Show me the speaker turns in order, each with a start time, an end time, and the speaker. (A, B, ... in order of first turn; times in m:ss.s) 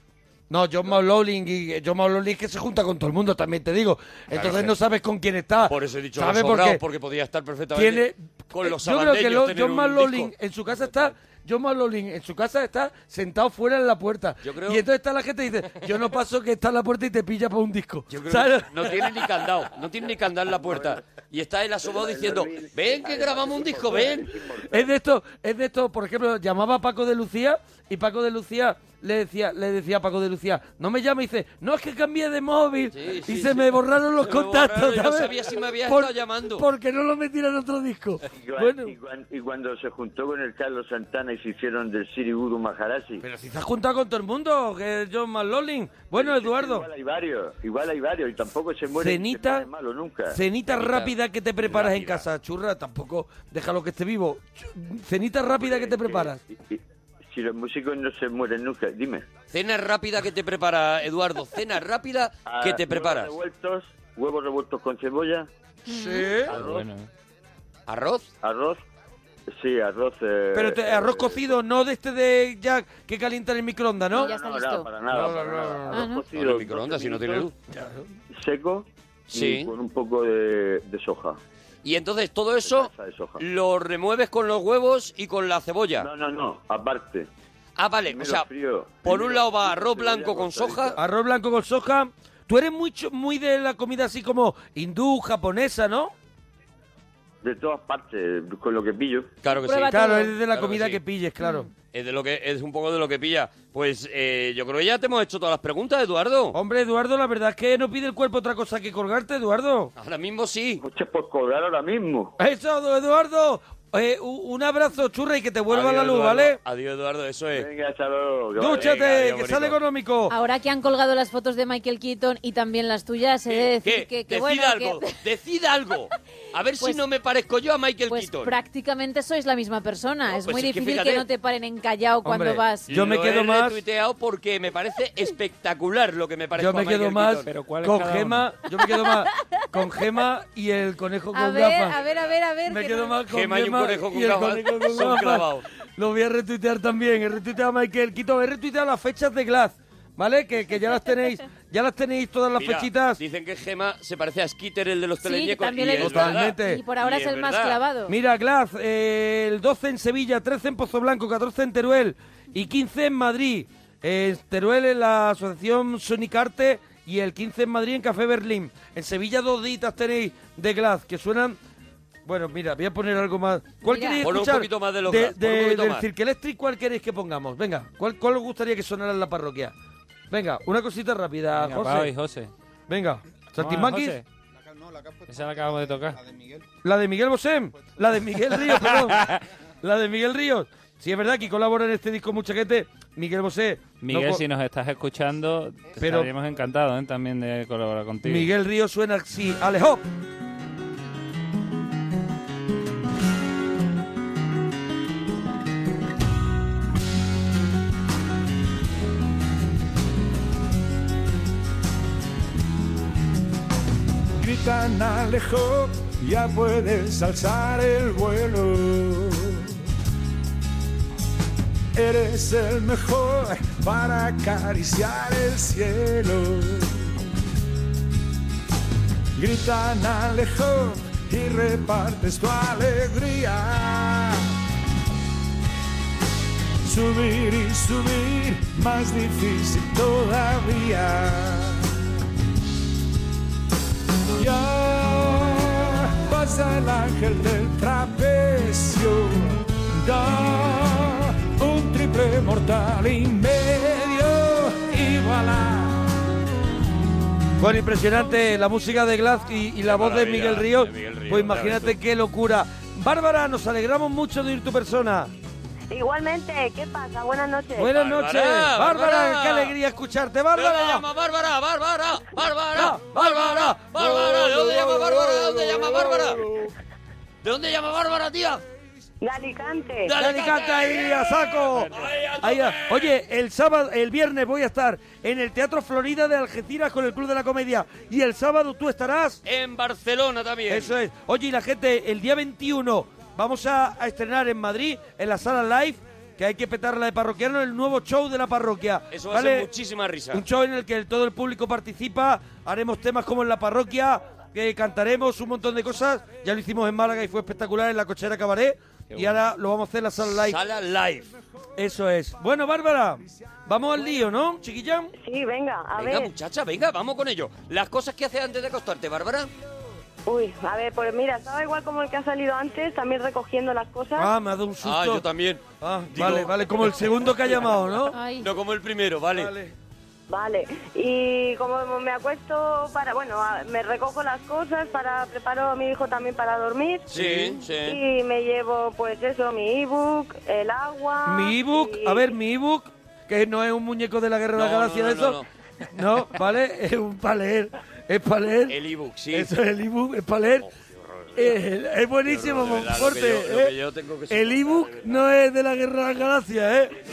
0:00.5-0:06.8 A
0:04.3-0:04.7 B
0:05.7-0:10.3 B
0:07.7-0:19.1 A
0:14.4-0:14.8 B
0:18.1-0:24.4 B
0:20.5-0:21.0 C
0:21.8-0:24.9 C
0:24.7-0:39.0 A
0:32.9-0:36.6 B
0:38.2-0:43.2 C
0:43.2-0:46.9 A
0:46.1-0:50.4 C
0:49.0-0:49.7 A
0:50.3-0:56.4 A
0:50.7-0:52.2 B
0:55.6-0:59.3 C
0:59.5-1:03.3 B
1:02.4-1:05.5 C
1:05.9-1:06.3 D
1:05.9-1:06.6 A
1:06.5-1:06.8 C
1:06.5-1:07.1 E
1:07.9-1:08.2 B
1:08.4-1:08.8 C
1:09.5-1:11.5 C
1:10.5-1:14.3 A
1:14.1-1:17.5 C
1:14.1-1:14.9 D
1:15.1-1:16.0 A
1:15.9-1:16.2 D
1:16.3-1:17.5 B
1:17.7-1:18.0 A
1:18.3-1:21.4 C
1:19.3-1:19.7 B
1:21.8-1:26.1 B
1:22.6-1:23.4 C
1:26.0-1:27.3 C
1:27.8-1:28.5 B
1:28.1-1:31.0 C
1:29.0-1:31.0 B
1:31.0-1:36.1 A
1:37.4-1:39.3 C
1:39.4-1:41.0 B
1:39.6-1:40.3 D
1:39.9-1:41.7 A
1:41.4-1:41.7 D
1:41.9-1:46.6 B
1:46.5-1:49.9 A
1:50.0-1:50.8 B
1:50.8-1:52.3 C
1:52.4-1:56.6 A
1:55.7-1:57.7 B
1:57.5-1:58.9 C
1:58.6-2:00.3 A
1:58.6-1:59.8 B
2:00.3-2:05.2 D
2:03.5-2:08.5 B
2:08.1-2:12.9 D
2:10.3-2:11.2 B
2:12.2-2:13.8 A
2:12.9-2:17.5 B
2:16.6-2:22.0 A
2:17.4-2:18.5 E
2:21.3-2:23.2 D
2:22.6-2:33.2 A
2:23.3-2:25.6 B
2:32.6-2:37.8 B
2:35.2-2:38.1 D
2:36.0-2:36.8 A
2:38.1-2:51.6 A
2:52.2-2:59.7 A
2:53.8-2:54.2 D
2:54.2-2:56.0 B
3:00.3-3:02.1 A
3:01.6-3:02.5 E
3:02.9-3:04.2 A
3:03.6-3:04.2 E
3:04.5-3:06.7 F
3:05.3-3:06.2 E
3:06.8-3:09.3 A
3:07.7-3:08.1 F
3:08.7-3:09.4 E
3:09.8-3:14.4 A
3:14.0-3:18.5 E
3:16.0-3:16.3 A
3:18.2-3:20.0 A
3:34.4-3:39.7 G
3:41.9-3:47.1 G
3:49.4-3:54.4 G
3:56.8-4:01.8 G
4:04.4-4:16.1 G
4:17.6-4:25.3 A
4:19.8-4:22.0 B
4:25.9-4:27.9 H
4:27.8-4:31.0 A
4:27.9-4:29.7 B
4:30.5-4:36.5 B
4:32.7-4:36.3 A
4:37.4-4:38.6 B
4:39.2-4:40.1 H
4:40.1-4:43.1 B
4:40.1-4:49.4 A
4:49.4-4:50.9 B
4:50.7-4:59.7 A
4:59.1-5:00.4 B
5:00.3-5:10.6 A
5:10.3-5:11.3 B
5:11.8-5:15.1 A
5:15.2-5:16.3 H
5:16.0-5:19.5 B
5:20.2-5:24.3 H
5:24.2-5:25.2 A
5:24.8-5:27.1 B
5:25.8-5:28.2 A
5:28.1-5:28.5 D
5:28.4-5:29.5 B
5:29.3-5:29.7 A
5:30.3-5:37.1 H
5:37.1-5:38.0 B
5:37.1-5:37.6 A
5:37.8-5:42.3 H
5:41.3-5:45.4 A
5:44.5-5:45.5 B
5:45.9-5:48.8 A
5:48.7-5:49.5 B
5:49.3-5:50.7 A
5:50.6-5:51.5 B
5:51.4-5:53.7 A
5:52.2-5:55.1 B
5:54.3-5:56.9 A